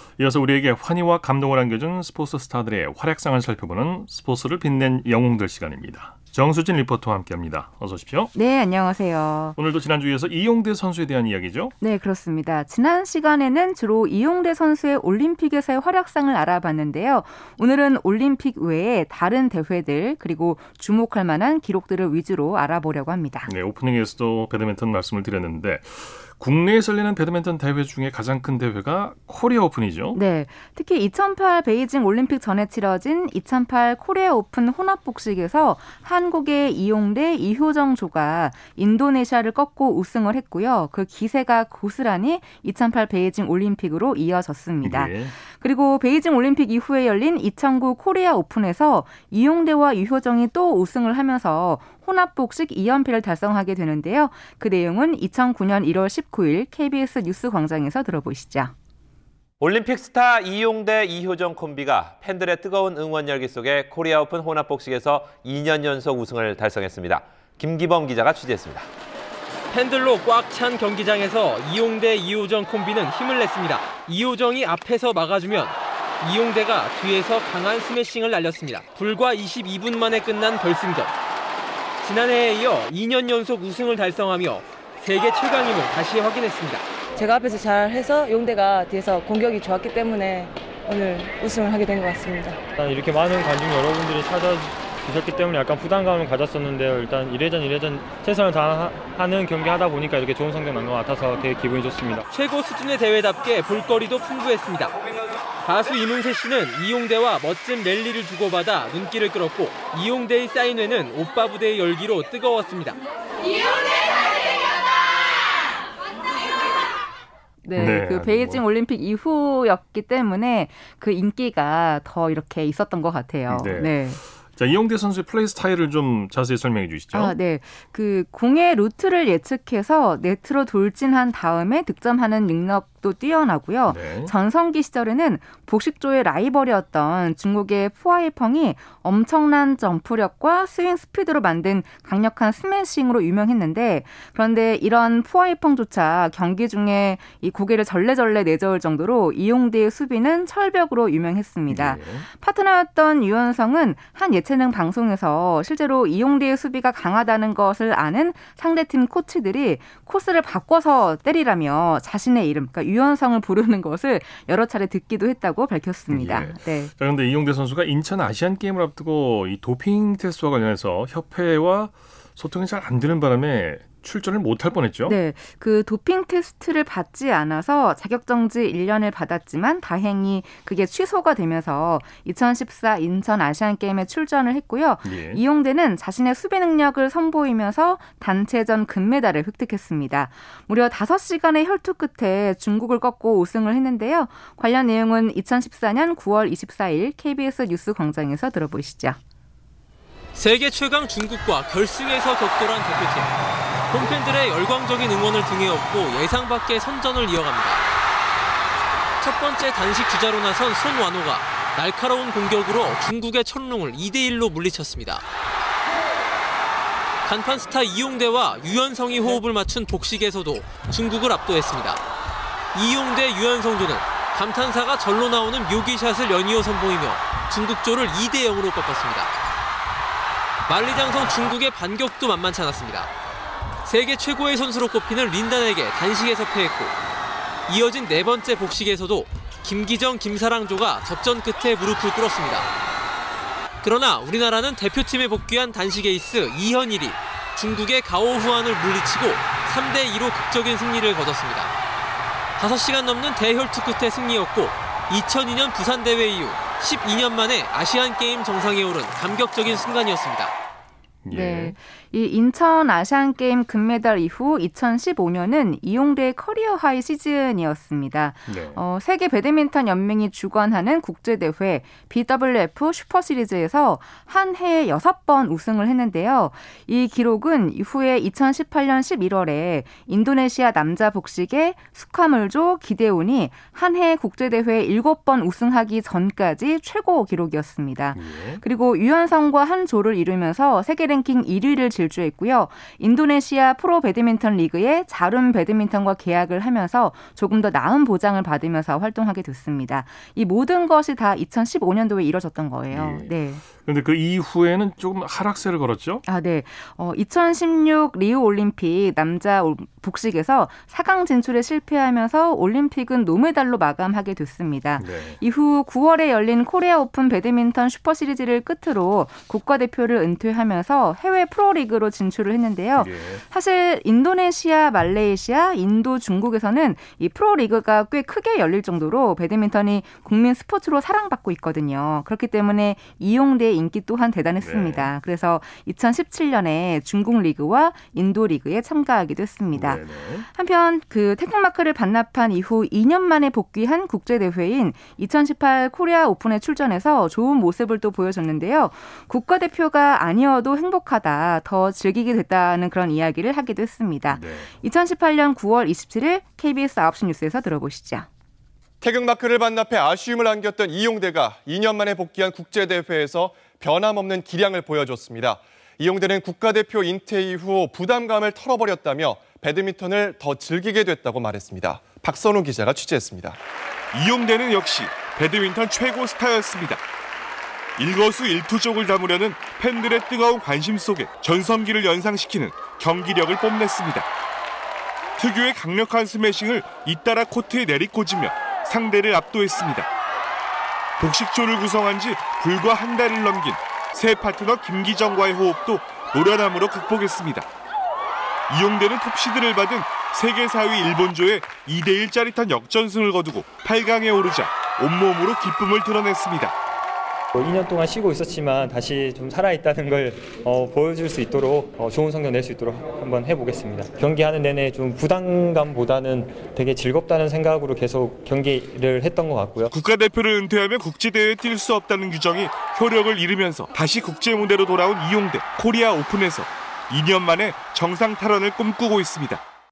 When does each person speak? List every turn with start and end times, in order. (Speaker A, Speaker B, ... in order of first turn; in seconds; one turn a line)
Speaker A: 0.2-8.3
Speaker B: 8.3-9.6
Speaker A: 9.6-11.7
Speaker B: 11.8-23.5
Speaker A: 23.5-30.2
Speaker B: 30.1-58.7
Speaker A: 44.8-45.3
Speaker C: 59.6-68.9
Speaker D: 69.7-81.2
Speaker D: 82.0-86.8
Speaker E: 87.2-90.4
Speaker E: 90.9-92.5
Speaker F: 92.8-102.3
Speaker D: 102.3-105.0
Speaker D: 105.6-113.0
Speaker B: 117.6-124.2
Speaker A: 117.8-118.6
Speaker A: 123.5-127.4
Speaker B: 127.1-166.9
Speaker A: 133.9-134.3
Speaker A: 151.7-152.3
Speaker A: 166.1-175.2
Speaker B: 175.1-199.2
Speaker A: 185.0-185.4
Speaker D: 200.3-203.3
Speaker D: 203.9-207.9
Speaker D: 209.2-215.2
Speaker D: 217.2-222.0
Speaker D: 222.7-229.3
Speaker D: 230.7-233.1
Speaker D: 233.8-236.9
Speaker D: 237.7-242.7
Speaker D: 243.8-251.7
Speaker D: 252.6-260.5
Speaker A: 261.2-261.8
Speaker B: 261.3-303.6
Speaker A: 268.5-268.8
Speaker A: 288.1-288.6
Speaker A: 302.9-306.2
Speaker B: 306.2-358.3
Speaker A: 315.0-315.4
Speaker A: 323.0-323.4
Speaker A: 334.6-335.1
Speaker A: 339.7-340.5
Speaker A: 354.3-354.7
Speaker G: 359.0-373.6
Speaker H: 374.1-377.0
Speaker H: 378.0-384.3
Speaker H: 385.4-390.1
Speaker H: 391.2-397.7
Speaker H: 398.7-406.8
Speaker F: 407.5-419.9
Speaker H: 419.9-429.6